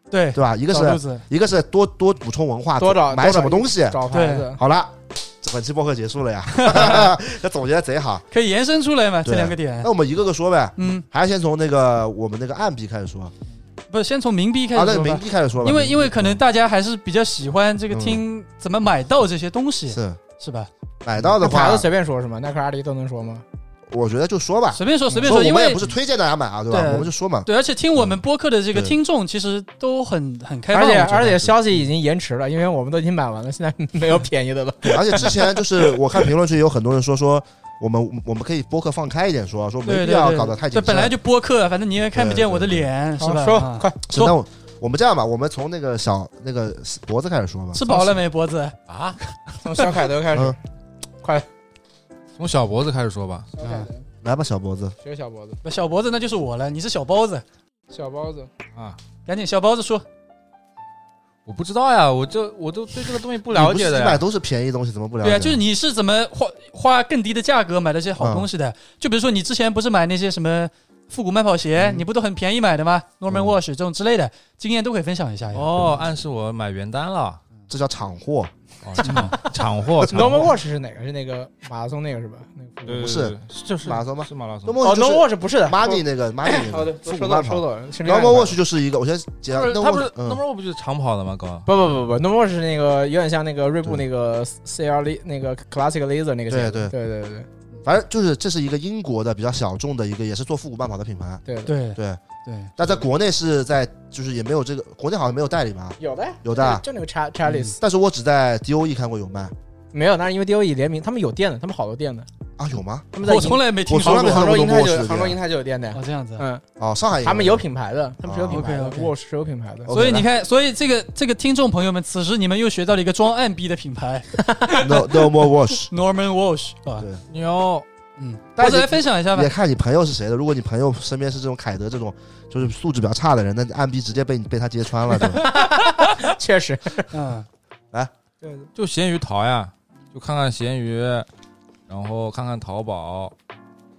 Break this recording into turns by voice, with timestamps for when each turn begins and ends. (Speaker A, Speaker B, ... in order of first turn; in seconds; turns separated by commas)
Speaker A: 0.1-1.2, Speaker B: 0.3-4.0, Speaker C: 2.8-4.6, Speaker A: 4.1-4.5, Speaker B: 4.5-8.2, Speaker A: 6.5-7.1, Speaker A: 8.3-9.9, Speaker B: 9.2-13.3, Speaker A: 10.8-11.0, Speaker A: 13.9-20.7, Speaker B: 14.7-16.4, Speaker B: 17.9-18.2, Speaker B: 19.9-20.2, Speaker B: 21.0-21.9, Speaker C: 21.4-23.4, Speaker B: 23.9-28.2, Speaker A: 24.7-25.9, Speaker A: 26.7-31.5, Speaker C: 30.7-36.0, Speaker B: 34.9-41.1, Speaker A: 39.8-44.3, Speaker B: 42.1-42.9, Speaker C: 43.2-44.2, Speaker B: 44.1-47.8, Speaker A: 47.7-48.7, Speaker D: 48.9-49.2, Speaker C: 49.6-50.6, Speaker D: 52.4-53.5, Speaker C: 53.5-54.0, Speaker A: 53.6-53.9, Speaker B: 54.2-55.0, Speaker C: 55.0-55.6, Speaker A: 55.6-57.4, Speaker C: 57.9-58.5, Speaker A: 59.2-60.0, Speaker D: 61.5-64.2, Speaker B: 63.5-65.6, Speaker A: 65.2-75.9, Speaker B: 68.2-68.5, Speaker B: 71.8-72.0, Speaker B: 73.3-73.6, Speaker D: 75.5-77.4, Speaker B: 77.7-79.3, Speaker D: 78.8-80.5, Speaker A: 79.0-79.3, Speaker B: 80.0-80.4, Speaker C: 80.1-83.2, Speaker D: 82.8-84.8, Speaker B: 83.0-90.4, Speaker C: 84.8-88.6, Speaker D: 89.5-91.7, Speaker C: 91.7-97.5, Speaker B: 96.5-96.9, Speaker B: 97.8-101.4, Speaker C: 101.4-101.7, Speaker A: 101.7-102.7, Speaker B: 101.9-102.2, Speaker B: 102.8-106.8, Speaker C: 106.0-107.7, Speaker A: 107.5-107.7, Speaker B: 107.8-109.5, Speaker C: 109.9-112.3, Speaker B: 112.6-113.2, Speaker C: 113.1-116.6, Speaker A: 113.2-114.6, Speaker B: 113.9-115.4, Speaker A: 115.9-116.4, Speaker B: 116.8-117.6, Speaker C: 117.2-120.1, Speaker B: 118.2-118.7, Speaker A: 118.5-119.1, Speaker B: 119.9-120.2, Speaker A: 119.9-124.9, Speaker C: 124.5-124.9, Speaker B: 124.8-125.9, Speaker A: 125.7-127.0, Speaker D: 127.3-127.8, Speaker A: 128.2-129.5, Speaker B: 128.6-135.5, Speaker C: 135.2-137.2, Speaker A: 137.1-137.4, Speaker C: 138.4-138.7, Speaker D: 138.8-141.3, Speaker D: 141.9-143.3